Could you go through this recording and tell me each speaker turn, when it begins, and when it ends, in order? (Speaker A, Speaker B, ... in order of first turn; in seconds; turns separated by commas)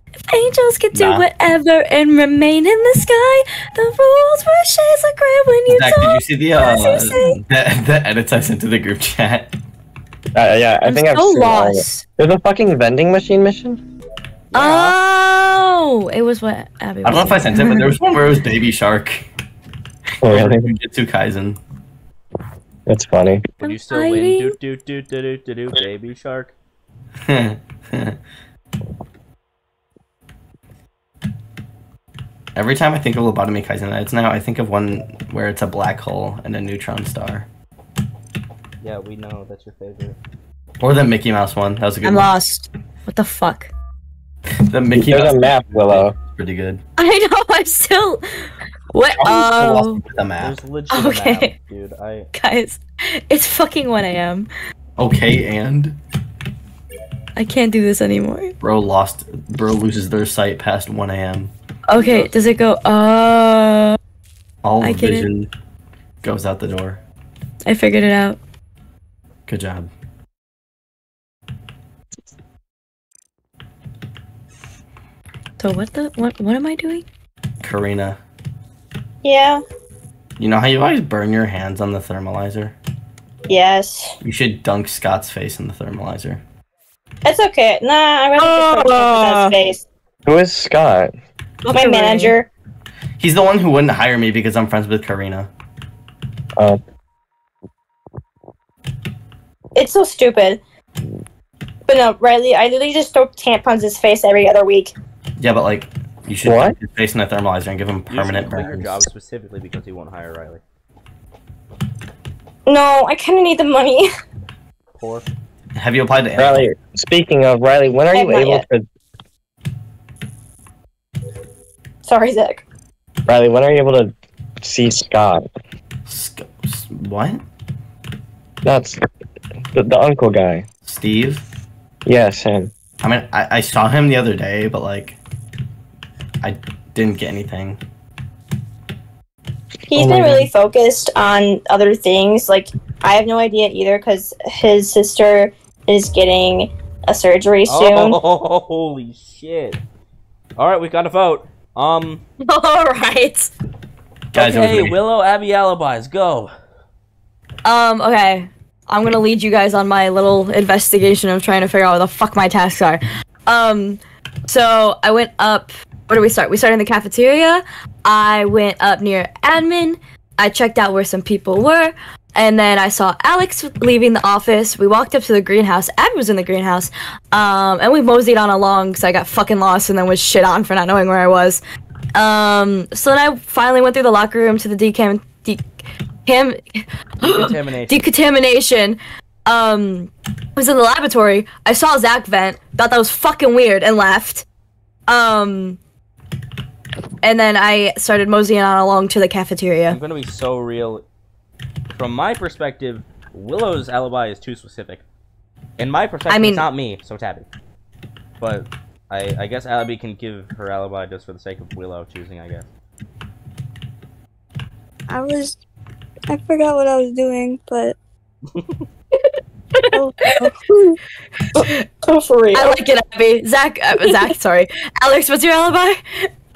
Speaker A: 0.3-7.4, Speaker B: 0.9-1.3, Speaker B: 5.7-9.5, Speaker C: 10.3-13.8, Speaker A: 10.8-12.1, Speaker D: 14.5-15.0, Speaker A: 14.5-17.9, Speaker B: 17.1-19.3, Speaker C: 20.2-20.6, Speaker B: 20.2-21.6, Speaker C: 22.9-23.4, Speaker D: 23.6-26.5, Speaker A: 23.6-24.6, Speaker B: 27.3-28.2, Speaker B: 32.5-37.5, Speaker D: 38.8-40.2, Speaker B: 40.8-42.4, Speaker A: 42.0-43.7, Speaker B: 44.7-46.8, Speaker C: 44.9-46.1, Speaker A: 47.0-48.2, Speaker A: 48.9-50.0, Speaker B: 49.2-50.6, Speaker D: 50.4-52.3, Speaker A: 50.9-51.5, Speaker A: 52.3-54.5, Speaker B: 55.0-56.0, Speaker A: 57.4-58.5, Speaker B: 58.6-61.5, Speaker A: 61.9-64.0, Speaker D: 62.0-62.3, Speaker B: 64.6-65.5, Speaker A: 64.8-65.3, Speaker B: 66.2-67.0, Speaker A: 67.7-68.4, Speaker B: 69.5-69.9, Speaker A: 75.6-77.1, Speaker B: 77.6-78.2, Speaker E: 79.2-79.6, Speaker B: 80.4-82.8, Speaker E: 83.5-84.1, Speaker B: 84.2-86.4, Speaker E: 87.2-89.8, Speaker A: 88.4-89.6, Speaker C: 90.3-91.1, Speaker A: 91.6-92.3, Speaker E: 91.7-92.5, Speaker B: 93.2-95.5, Speaker E: 99.8-100.6, Speaker E: 101.9-104.9, Speaker B: 105.4-109.1, Speaker C: 106.4-106.8, Speaker D: 108.1-110.6, Speaker E: 112.7-114.1, Speaker D: 114.9-115.3, Speaker B: 115.8-116.7, Speaker C: 116.4-118.8, Speaker E: 118.1-118.7, Speaker E: 122.0-122.6, Speaker C: 123.3-124.1, Speaker C: 124.6-125.4, Speaker B: 126.1-127.4, Speaker C: 128.6-129.0, Speaker C: 129.7-130.7, Speaker B: 130.8-131.4, Speaker C: 132.1-132.7, Speaker B: 133.0-135.2, Speaker B: 136.4-137.8, Speaker E: 139.9-148.2, Speaker C: 139.9-140.5, Speaker D: 147.7-149.8, Speaker D: 150.6-152.2, Speaker A: 152.5-153.5, Speaker D: 154.3-156.5, Speaker B: 154.3-155.0, Speaker A: 157.6-181.6, Speaker A: 182.2-185.7, Speaker A: 186.3-194.5, Speaker D: 187.2-188.1, Speaker A: 195.1-195.8, Speaker A: 197.2-200.0, Speaker D: 199.9-201.0, Speaker D: 201.9-205.0, Speaker D: 205.8-207.5, Speaker A: 206.3-206.7, Speaker D: 208.4-212.7, Speaker F: 215.1-215.6, Speaker F: 216.3-218.0, Speaker D: 218.6-218.8, Speaker F: 219.9-221.0, Speaker E: 221.6-222.8, Speaker A: 222.5-226.0